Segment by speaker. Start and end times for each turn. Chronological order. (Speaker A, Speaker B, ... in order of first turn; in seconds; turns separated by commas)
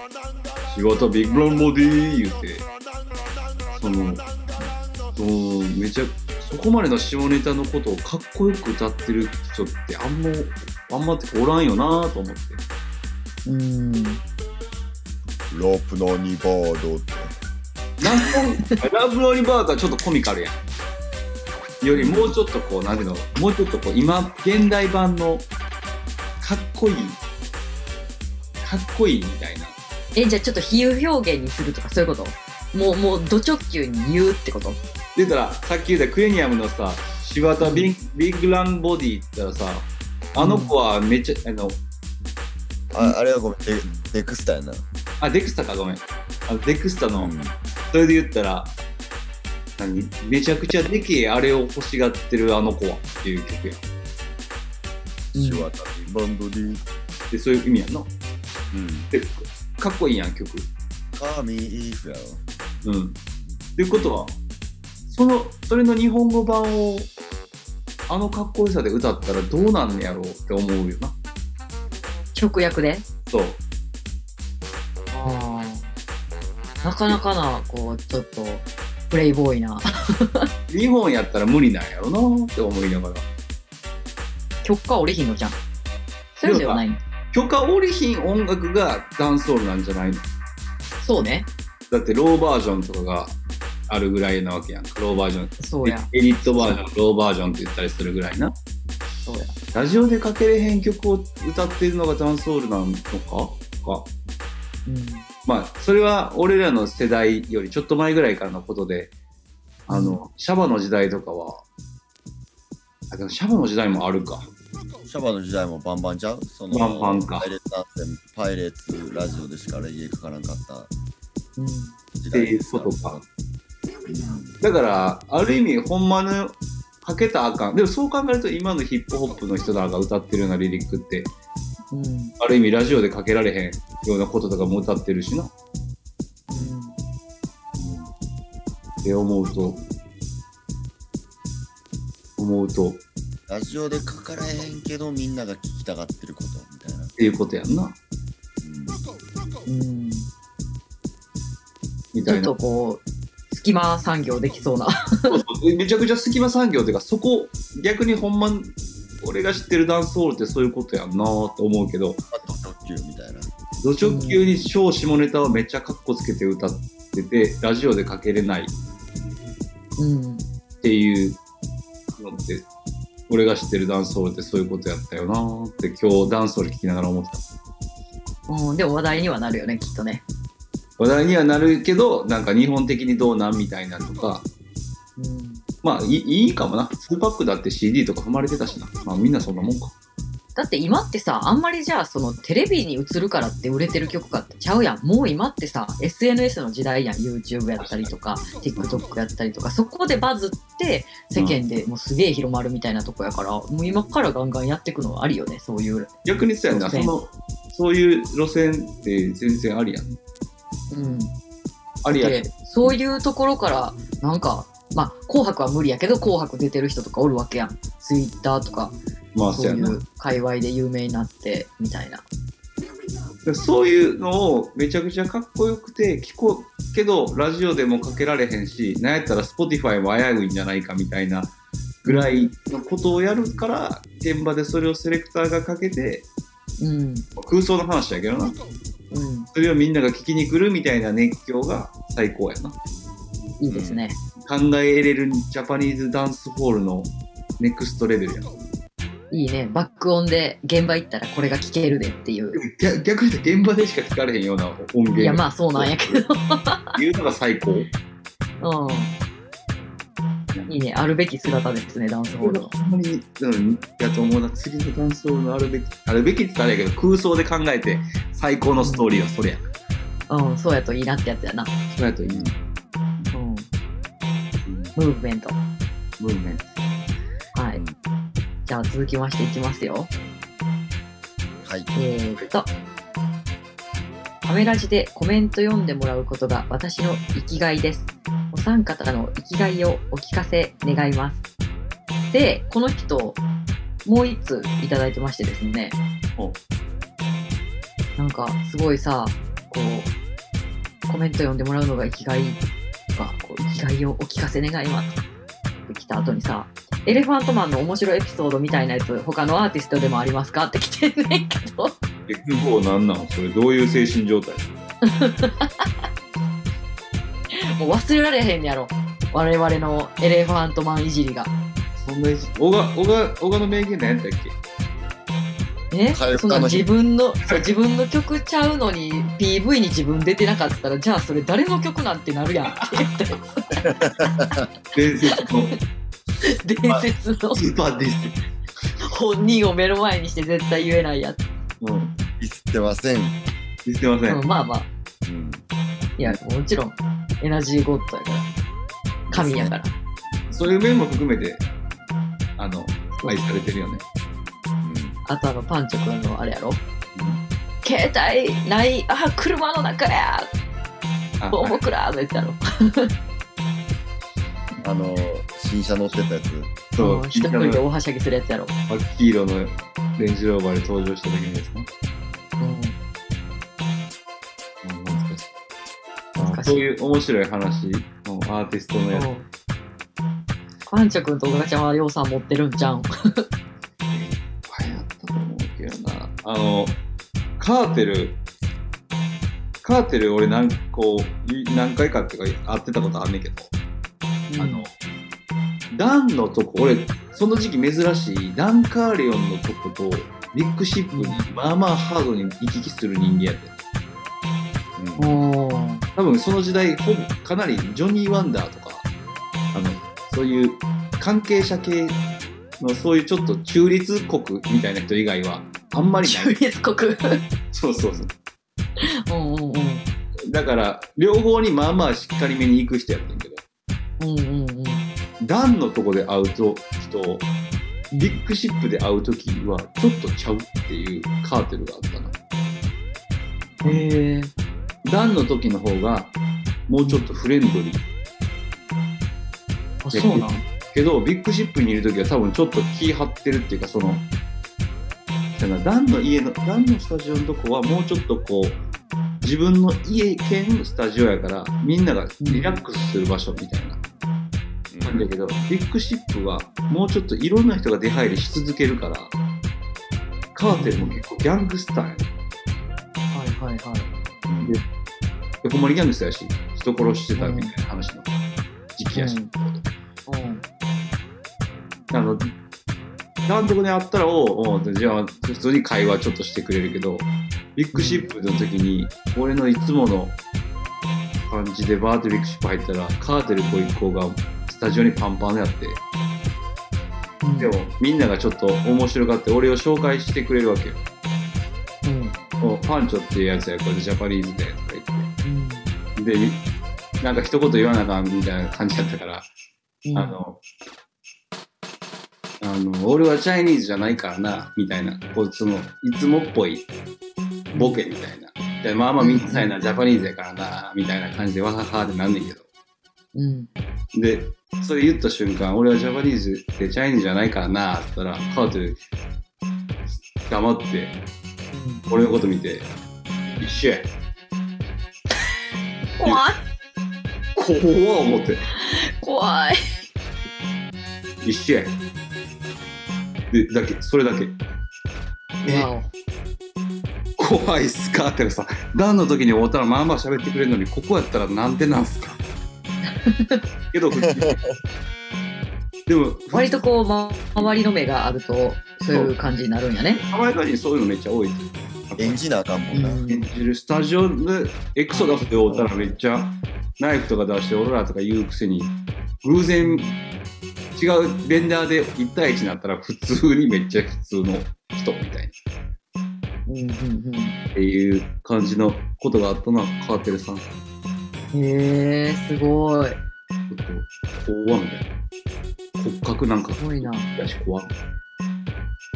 Speaker A: 0.7-2.7, Speaker A: 3.7-4.3, Speaker A: 5.1-12.6, Speaker B: 13.4-14.2, Speaker C: 15.5-17.3, Speaker A: 18.0-20.6, Speaker B: 18.0-18.7, Speaker A: 21.8-25.5, Speaker C: 21.9-22.4, Speaker A: 26.4-27.2, Speaker A: 28.6-29.8, Speaker B: 30.1-34.8, Speaker A: 35.1-41.8, Speaker B: 37.6-37.9, Speaker B: 40.4-40.7, Speaker C: 42.9-44.8, Speaker A: 45.2-47.3, Speaker C: 47.1-47.5, Speaker A: 47.9-48.7, Speaker A: 49.8-53.8, Speaker B: 55.3-55.7, Speaker C: 55.3-56.8, Speaker A: 57.3-58.1, Speaker C: 58.7-59.1, Speaker A: 59.1-60.7, Speaker C: 61.1-62.4, Speaker A: 62.8-63.2, Speaker A: 63.8-64.3, Speaker C: 63.9-64.3, Speaker A: 65.1-67.1, Speaker A: 68.1-71.1, Speaker B: 72.3-73.0, Speaker A: 73.2-73.6, Speaker B: 75.1-75.9, Speaker B: 76.8-80.5, Speaker A: 80.7-83.3, Speaker B: 84.6-85.6, Speaker B: 86.3-87.0, Speaker A: 86.4-90.2, Speaker B: 91.0-91.5, Speaker A: 91.9-93.4, Speaker A: 93.9-98.5, Speaker B: 95.6-96.8, Speaker B: 99.2-99.5, Speaker A: 99.7-104.1, Speaker B: 104.8-105.2, Speaker A: 105.5-109.1, Speaker A: 109.9-111.6, Speaker B: 109.9-110.2, Speaker A: 113.1-114.5, Speaker C: 115.1-120.9, Speaker A: 116.7-117.5, Speaker B: 121.6-121.9, Speaker C: 122.2-123.2, Speaker A: 122.3-123.2, Speaker C: 124.0-124.6, Speaker A: 124.6-131.3, Speaker B: 131.9-132.3, Speaker A: 132.4-135.5, Speaker B: 136.5-136.9, Speaker A: 137.8-138.1, Speaker A: 139.0-139.8, Speaker A: 142.4-143.0, Speaker C: 143.5-147.1, Speaker A: 147.2-148.0, Speaker C: 148.6-149.0, Speaker B: 149.7-150.3, Speaker A: 152.1-152.5, Speaker B: 152.2-155.4, Speaker A: 155.3-162.2, Speaker C: 162.3-163.5, Speaker A: 163.8-168.7, Speaker B: 164.0-164.4, Speaker B: 170.0-170.4, Speaker A: 170.8-171.4, Speaker A: 172.2-172.7, Speaker A: 173.3-177.4, Speaker B: 178.5-180.2, Speaker A: 181.0-184.5, Speaker B: 185.2-185.6, Speaker A: 185.8-189.9, Speaker B: 190.6-206.1, Speaker A: 197.8-198.1, Speaker A: 198.8-199.0, Speaker A: 201.3-201.6, Speaker A: 206.2-210.2, Speaker B: 206.7-207.1, Speaker B: 210.9-211.3, Speaker A: 212.0-212.9, Speaker B: 212.1-218.9, Speaker A: 219.3-220.0, Speaker B: 219.5-222.2, Speaker A: 223.4-236.3, Speaker B: 232.1-232.5, Speaker B: 236.8-237.2, Speaker A: 237.3-238.6, Speaker B: 239.1-239.5, Speaker A: 239.5-242.8, Speaker B: 243.6-244.2, Speaker C: 243.7-244.0, Speaker A: 244.4-248.5, Speaker B: 249.3-252.6, Speaker A: 252.5-256.2, Speaker B: 255.2-256.9, Speaker A: 256.9-257.9, Speaker B: 258.6-259.1, Speaker B: 260.7-262.7, Speaker A: 262.4-269.7, Speaker B: 268.8-269.1, Speaker B: 270.3-271.7, Speaker A: 271.9-272.6, Speaker B: 273.3-273.7, Speaker A: 274.6-274.9, Speaker B: 274.9-275.6, Speaker A: 276.2-276.6, Speaker B: 277.5-277.8, Speaker B: 278.6-280.1, Speaker C: 281.6-281.9, Speaker B: 281.9-282.7, Speaker B: 284.4-291.4, Speaker B: 292.3-293.4, Speaker B: 294.0-296.0, Speaker B: 298.2-300.1, Speaker B: 301.1-302.6, Speaker B: 303.1-305.2, Speaker B: 305.9-312.0, Speaker A: 312.3-314.7, Speaker B: 315.0-315.9, Speaker B: 317.6-321.5, Speaker A: 322.0-324.6, Speaker B: 325.9-333.4, Speaker C: 326.1-326.9, Speaker A: 332.7-333.0, Speaker C: 333.8-334.7, Speaker A: 334.9-335.7, Speaker B: 336.4-337.6, Speaker A: 337.5-338.4, Speaker B: 339.0-341.4, Speaker A: 341.8-342.1, Speaker C: 342.4-343.4, Speaker A: 343.8-344.4, Speaker B: 344.3-344.9, Speaker C: 345.2-345.6, Speaker B: 346.2-348.5, Speaker C: 349.3-349.7, Speaker B: 349.3-349.9, Speaker A: 350.5-351.6, Speaker A: 352.6-354.0, Speaker C: 354.8-355.2, Speaker B: 355.2-356.8, Speaker A: 357.1-357.4, Speaker B: 357.8-360.5, Speaker A: 361.4-361.8, Speaker B: 361.5-363.1, Speaker C: 364.8-366.7, Speaker A: 366.9-367.8, Speaker B: 367.0-368.7, Speaker A: 368.9-371.9, Speaker B: 372.6-373.0, Speaker A: 374.8-375.5, Speaker B: 376.4-376.8, Speaker A: 376.4-379.3, Speaker B: 379.1-379.4, Speaker B: 380.9-383.4, Speaker A: 384.1-387.0, Speaker A: 387.6-388.4, Speaker A: 389.8-393.7, Speaker B: 394.5-394.9, Speaker A: 394.6-394.9, Speaker A: 395.9-403.8, Speaker B: 401.1-401.5, Speaker C: 405.0-405.4, Speaker B: 405.2-406.0, Speaker A: 406.1-409.1, Speaker A: 409.7-412.2, Speaker A: 412.8-416.6, Speaker B: 416.2-417.4, Speaker A: 417.7-418.3, Speaker B: 419.0-420.1, Speaker A: 420.5-423.6, Speaker B: 424.2-425.1, Speaker A: 425.4-427.5, Speaker B: 428.1-428.4, Speaker A: 428.2-432.3, Speaker B: 433.8-434.5, Speaker A: 435.0-436.3, Speaker A: 436.9-438.1, Speaker B: 440.0-440.6, Speaker A: 440.1-444.2, Speaker A: 445.5-448.8, Speaker A: 449.4-454.0, Speaker B: 452.4-452.8, Speaker C: 454.9-455.3, Speaker A: 455.0-459.3, Speaker A: 460.5-462.3, Speaker B: 460.7-461.1, Speaker B: 463.3-464.1, Speaker C: 464.5-464.8, Speaker A: 465.6-468.3, Speaker B: 467.4-467.7, Speaker A: 468.9-469.8, Speaker B: 469.1-469.5, Speaker B: 470.3-470.6, Speaker A: 472.1-472.5, Speaker A: 473.4-480.4, Speaker B: 477.9-478.3, Speaker A: 481.5-486.0, Speaker B: 487.4-487.7, Speaker A: 487.6-491.0, Speaker B: 492.0-492.4, Speaker A: 492.6-495.3, Speaker B: 495.4-495.9, Speaker A: 496.2-496.6, Speaker A: 497.2-499.5, Speaker B: 500.0-500.4, Speaker A: 500.1-500.6, Speaker A: 502.6-506.9, Speaker B: 507.7-508.0, Speaker A: 507.7-512.6, Speaker B: 509.2-509.7, Speaker B: 513.3-513.7, Speaker A: 514.1-519.0, Speaker A: 520.4-521.2, Speaker B: 521.7-522.0, Speaker A: 522.1-522.9, Speaker A: 523.6-524.1, Speaker B: 526.2-526.6, Speaker A: 527.5-528.6, Speaker B: 528.8-529.8, Speaker A: 531.4-532.0, Speaker A: 533.5-534.6, Speaker A: 535.6-535.9, Speaker B: 535.6-536.1, Speaker A: 537.4-542.4, Speaker B: 543.1-543.6, Speaker A: 543.9-544.6, Speaker C: 544.3-544.5, Speaker A: 546.1-546.9, Speaker B: 546.5-550.2, Speaker A: 550.1-552.4, Speaker C: 552.2-553.2, Speaker B: 552.9-553.5, Speaker A: 553.3-560.1, Speaker B: 555.1-555.9, Speaker B: 559.8-560.2, Speaker A: 560.9-565.5, Speaker B: 566.7-567.6, Speaker A: 567.7-570.6, Speaker B: 571.5-573.2, Speaker A: 573.7-575.1, Speaker A: 576.0-577.9, Speaker B: 576.8-577.3